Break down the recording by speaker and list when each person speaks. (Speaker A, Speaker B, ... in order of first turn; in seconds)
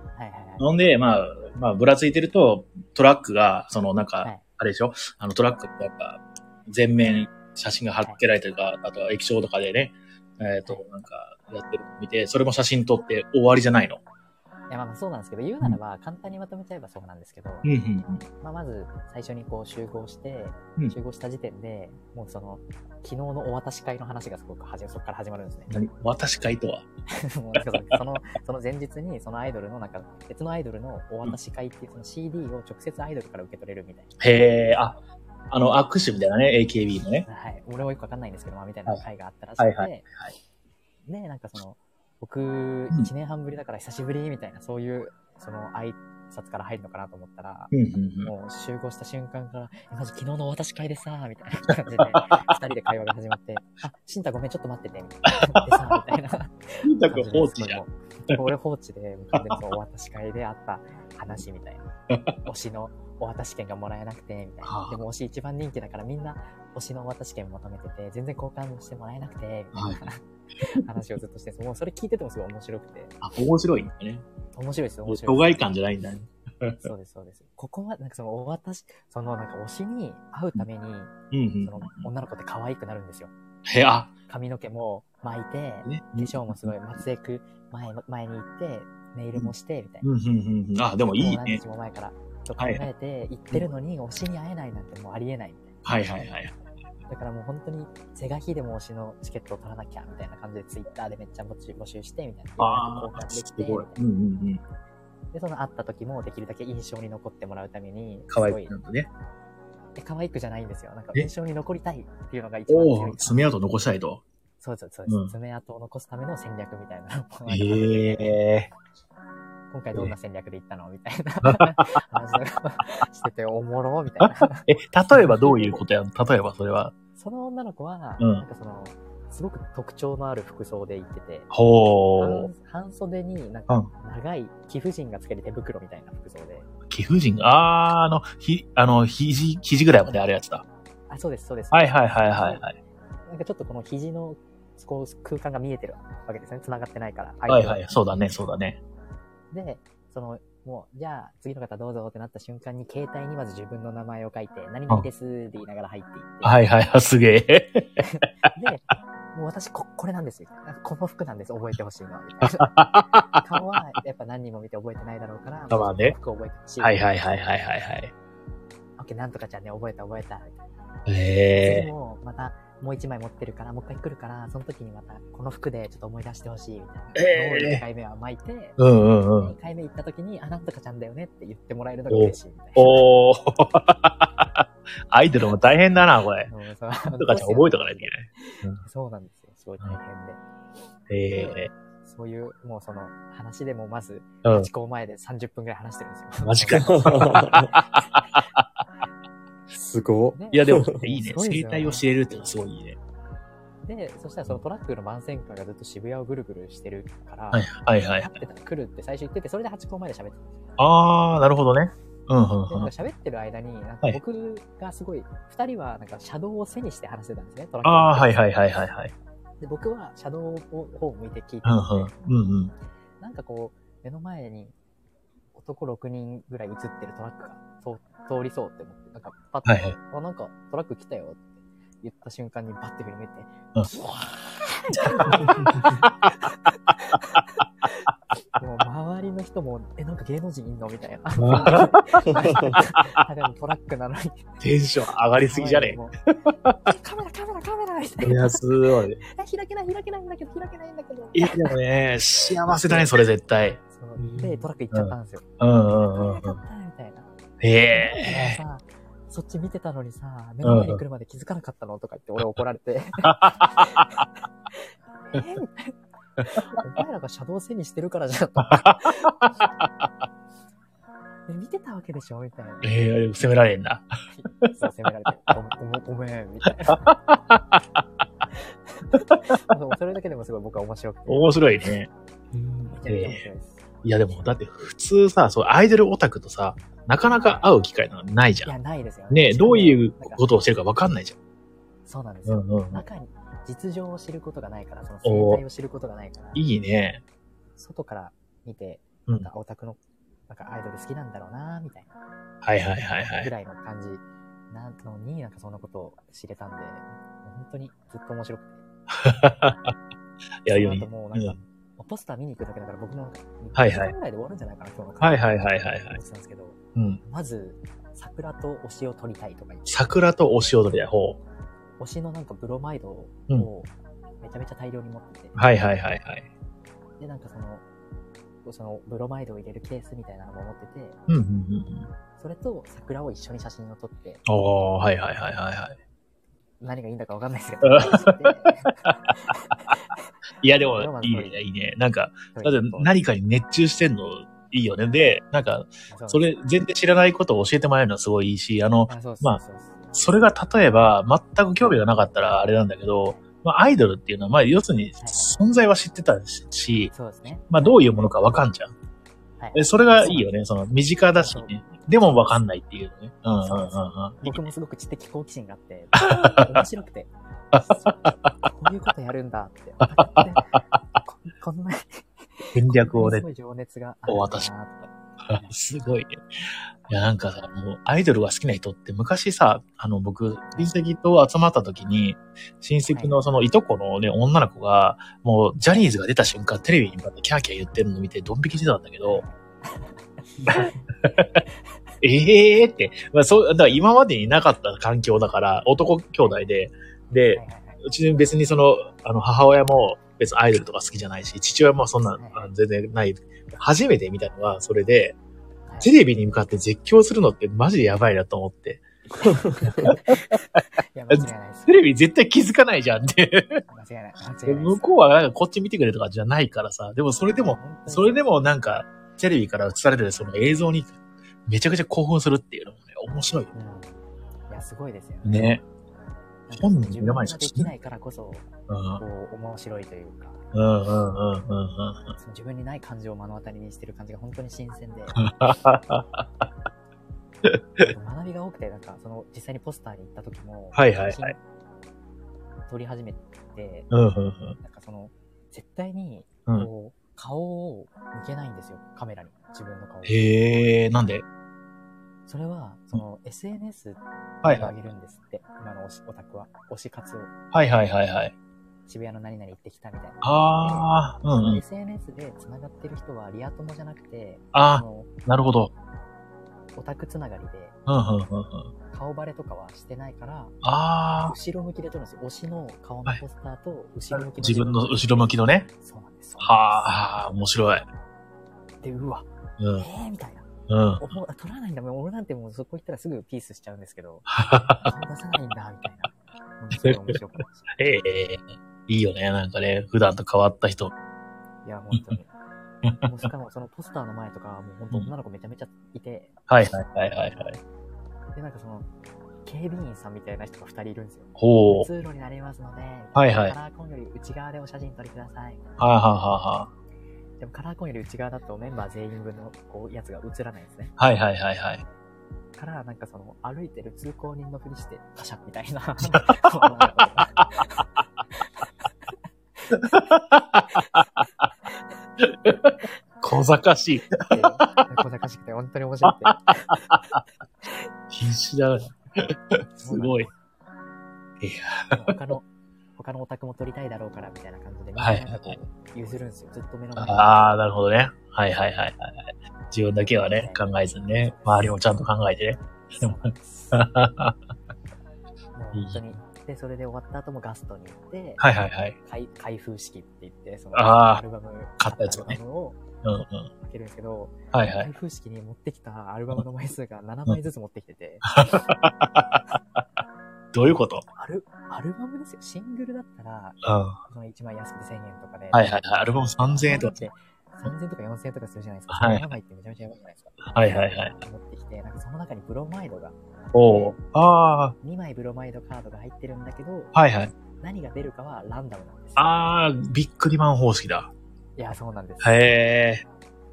Speaker A: 0.1-0.7, 14.7-17.7, 18.4-25.7, 27.1-34.2, 37.2-40.0, 41.0-47.7, 48.2-61.9, 62.4-73.1, 74.5-75.6, 76.8-83.3, 84.3-90.1, 91.1-96.3, 97.1-104.0, 105.3-108.7, 110.0-113.4, 114.6-118.3, 119.7-125.8, 127.1-131.5, 132.2-136.7, 141.1-142.7, 143.3-147.9, 149.5-156.6, 158.0-162.7, 163.3-167.0, 169.0-170.6, 171.6-178.8, 179.4-183.1, 185.4-185.7, 186.5-190.4, 191.3-197.6, 200.3-202.0, 203.8-207.7, 208.2-210.5, 212.7-218.4, 219.6-222.1, 223.2-224.7, 225.5-244.5, 245.3-246.1, 246.8-248.6, 249.2-251.7, 253.9-255.4, 256.0-257.3, 257.9-264.2, 264.8-269.5, 271.5-272.9, 274.3-277.1, 278.9-281.6, 283.0-284.5, 288.6-290.5, 292.1-296.6, 297.8-302.1, 303.4-308.8, 310.7-320.1, 322.0-323.9, 324.4-325.5, 327.2-327.8, 328.6-331.2, 332.4-334.4, 336.8-340.3, 340.9-341.6, 342.5-343.1, 346.1-346.5, 349.1-350.1, 355.2-355.6, 357.1-358.1, 359.6-360.5, 361.3-361.9, 363.6-367.3, 367.8-375.9, 383.1-383.4, 389.2-391.1, 397.5-398.0, 402.3-402.7, 405.9-406.1, 409.8-412.0, 413.9-415.0, 417.5-418.4, 423.7-425.7, 426.7-430.6, 432.4-435.4, 438.0-441.6, 442.9-444.1, 444.8-450.5, 452.5-457.5, 459.1-465.3, 466.9-467.9, 469.1-470.8, 471.4-477.1, 479.0-480.7, 481.2-484.5, 485.0-487.9, 491.8-492.5, 493.2-496.6, 498.5-499.1, 499.6-505.8, 507.6-511.1, 512.8-518.8, 520.9-521.2, 524.5-527.1, 530.0-530.5, 532.1-537.6, 540.3-540.9, 541.4-541.9, 543.1-544.1, 545.7-548.6, 549.2-553.0, 553.8-558.5, 561.4-574.2, 575.0-577.1, 577.8-579.4, 581.8-582.8
Speaker B: 0.6-14.0, 17.6-18.2, 25.7-26.9, 27.6-27.9, 34.2-37.3, 39.6-40.3, 47.7-48.3, 55.5-55.9, 56.8-58.4, 62.1-62.4, 64.6-65.0, 69.7-70.1, 73.2-74.2, 75.0-76.9, 81.3-82.1, 83.7-84.1, 85.8-86.7, 90.0-91.6, 92.6-92.8, 95.8-96.5, 102.6-104.6, 108.3-109.1, 112.7-114.2, 115.0-115.3, 117.5-118.7, 121.4-121.9, 124.2-126.9, 128.2-128.4, 131.5-132.5, 136.9-140.6, 141.7-142.8, 147.5-148.8, 156.4-158.0, 162.4-163.7, 165.7-166.2, 166.8-168.1, 171.1-171.9, 177.1-177.8, 178.8-179.5, 182.1-186.5, 187.2-188.8, 191.1-191.7, 194.4-194.7, 196.4-198.6, 200.5-203.0, 207.5-208.4, 210.8-212.9, 217.8-219.1, 221.6-222.7, 229.6-229.9, 235.0-236.0, 241.4-242.0, 244.6-246.0, 248.2-249.2, 251.3-253.8, 254.9-256.6, 257.6-258.6, 260.6-261.0, 263.2-264.2, 268.7-269.6, 272.8-274.1, 276.9-277.8, 281.3-282.1, 283.1-283.4, 284.0-288.7, 289.3-291.4, 292.4-293.0, 295.2-295.6, 296.5-297.2, 302.6-303.5, 309.1-309.9, 310.6-311.6, 313.7-314.1, 315.2-316.2, 316.9-317.2, 319.9-321.4, 325.5-326.5, 331.3-332.1, 334.4-336.0, 337.9-338.4, 340.6-349.6, 350.1-357.1, 357.7-358.9, 359.7-364.6, 366.3-366.8, 367.7-368.5, 370.2-370.8, 372.7-373.4, 374.3-374.7, 375.4-376.4, 377.1-389.4, 390.6-391.6, 392.2-405.4, 406.0-409.0, 410.1-410.5, 411.3-413.8, 414.6-423.7, 425.4-425.8, 426.8-427.9, 428.9-429.2, 430.7-432.3, 435.4-436.7, 437.6-438.1, 440.9-441.5, 444.1-444.8, 450.2-451.4, 454.6-454.9, 457.7-458.5, 460.4-461.8, 464.7-465.9, 468.1-468.9, 470.8-471.5, 474.3-475.9, 476.6-478.1, 479.8-480.1, 480.9-481.3, 484.5-485.1, 487.0-487.2, 487.9-491.1, 493.0-493.4, 496.7-497.8, 501.6-502.1, 503.3-503.8, 506.0-506.9, 511.2-512.0, 519.9-521.4, 522.4-525.1, 526.2-527.4, 528.3-530.5, 531.6-532.4, 535.2-535.8, 537.2-543.3, 543.9-544.5, 545.9-546.3, 548.6-549.2, 550.9-551.4, 552.0-552.6, 553.2-553.7, 554.7-555.1, 558.5-559.6, 560.7-561.2, 563.8-564.2, 565.7-567.2, 569.1-569.5, 570.7-571.3, 573.7-575.0, 577.1-577.5, 579.4-581.3, 582.4-583.2
Speaker C: 196.7-197.7, 199.7-200.9, 242.3-242.8, 254.2-254.7, 282.5-283.0